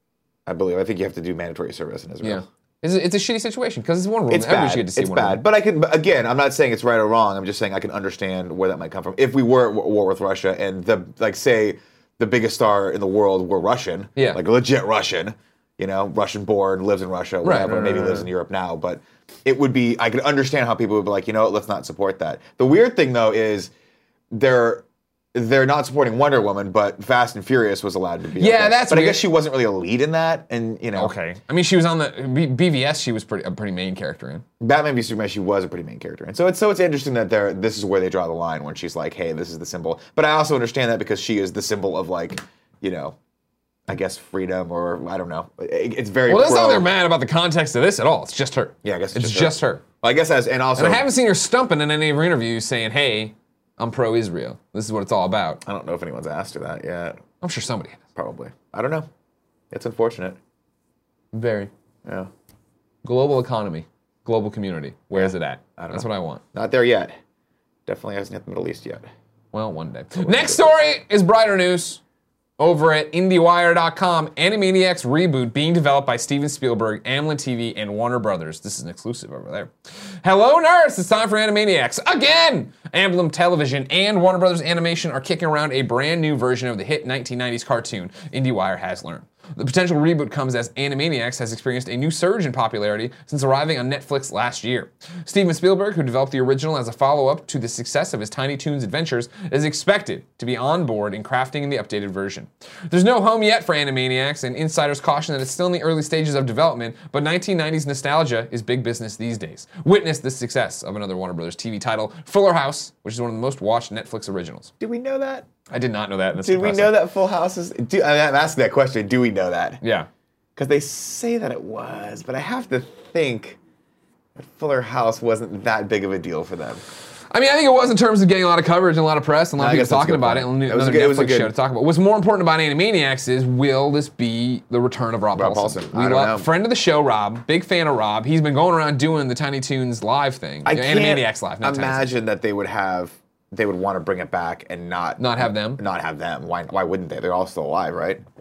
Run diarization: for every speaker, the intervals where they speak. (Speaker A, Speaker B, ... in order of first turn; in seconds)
Speaker A: 0.5-2.5, 4.3-23.7, 24.3-31.1, 34.6-43.2, 43.9-46.9, 48.8-51.1, 55.6-57.2, 58.2-59.1, 59.7-60.4, 65.1-67.2, 67.9-69.1, 70.2-70.6, 114.8-115.5, 116.4-119.8, 120.6-123.6, 124.4-126.8, 129.6-131.5, 135.3-136.5, 140.7-148.2
Speaker B: 2.2-5.4, 17.4-18.3, 28.4-29.3, 30.9-34.5, 46.3-49.8, 50.8-55.6, 57.4-58.0, 61.3-61.7, 63.0-66.4, 69.5-72.0, 72.6-114.7, 115.7-117.0, 119.8-120.1, 127.3-142.1, 145.2-145.8